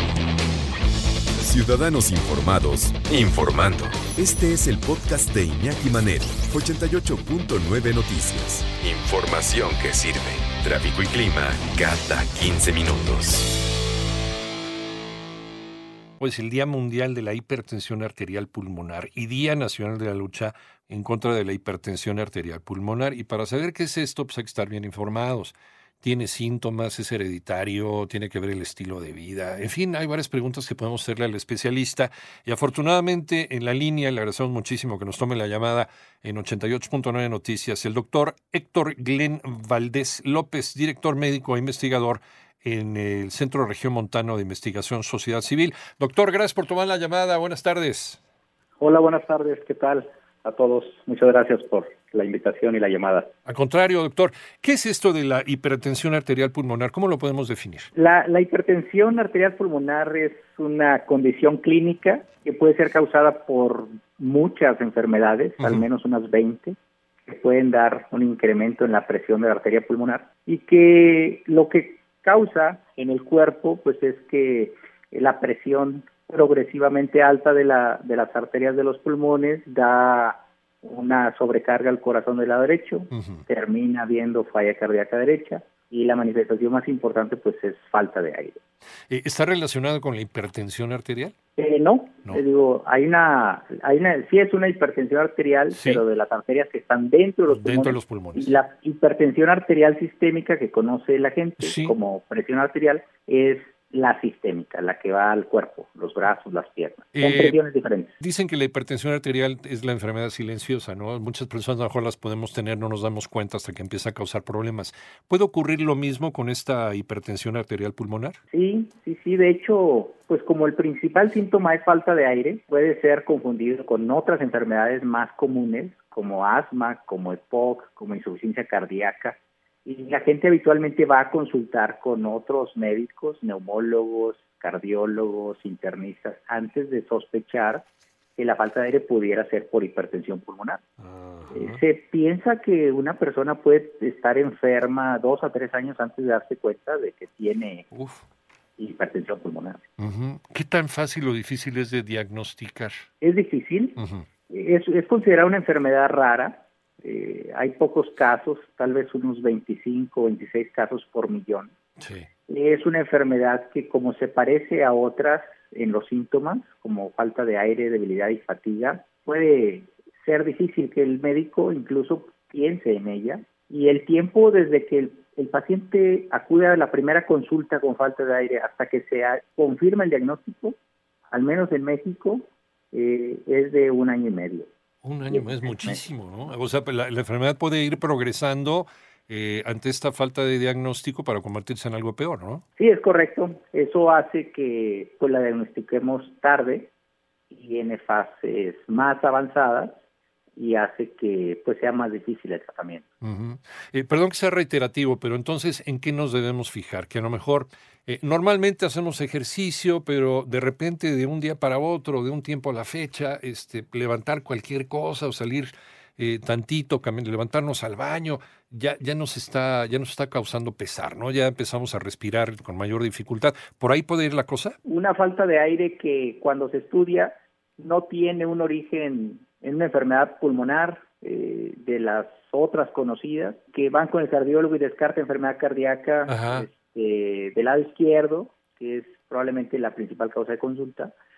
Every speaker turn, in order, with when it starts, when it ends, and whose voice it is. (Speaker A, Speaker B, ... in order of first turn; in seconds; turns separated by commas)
Speaker A: 1.4-13.5, Speaker B: 16.2-48.2, Speaker C: 48.8-53.3, Speaker B: 53.5-57.9, Speaker C: 58.0-66.8, Speaker B: 65.6-65.9, Speaker C: 67.3-88.6, Speaker B: 83.1-83.4, Speaker B: 89.1-91.3, Speaker C: 91.6-108.2, Speaker B: 95.7-96.0, Speaker B: 97.5-98.6, Speaker B: 101.6-102.0, Speaker B: 107.2-107.6, Speaker B: 108.2-118.4, Speaker C: 118.5-140.8, Speaker B: 141.0-141.8, Speaker C: 141.5-147.9, Speaker B: 147.9-148.2, Speaker C: 148.8-149.8, Speaker B: 150.0-153.1, Speaker C: 153.2-154.0, Speaker B: 154.0-154.3, Speaker C: 154.5-161.7, Speaker B: 162.0-162.3, Speaker C: 162.5-180.8, Speaker C: 181.3-184.7, Speaker B: 185.0-192.6, Speaker C: 185.3-186.0, Speaker C: 192.8-196.9, Speaker C: 197.5-200.0, Speaker C: 200.6-203.1, Speaker B: 203.2-224.8, Speaker C: 224.9-241.1, Speaker B: 236.3-236.7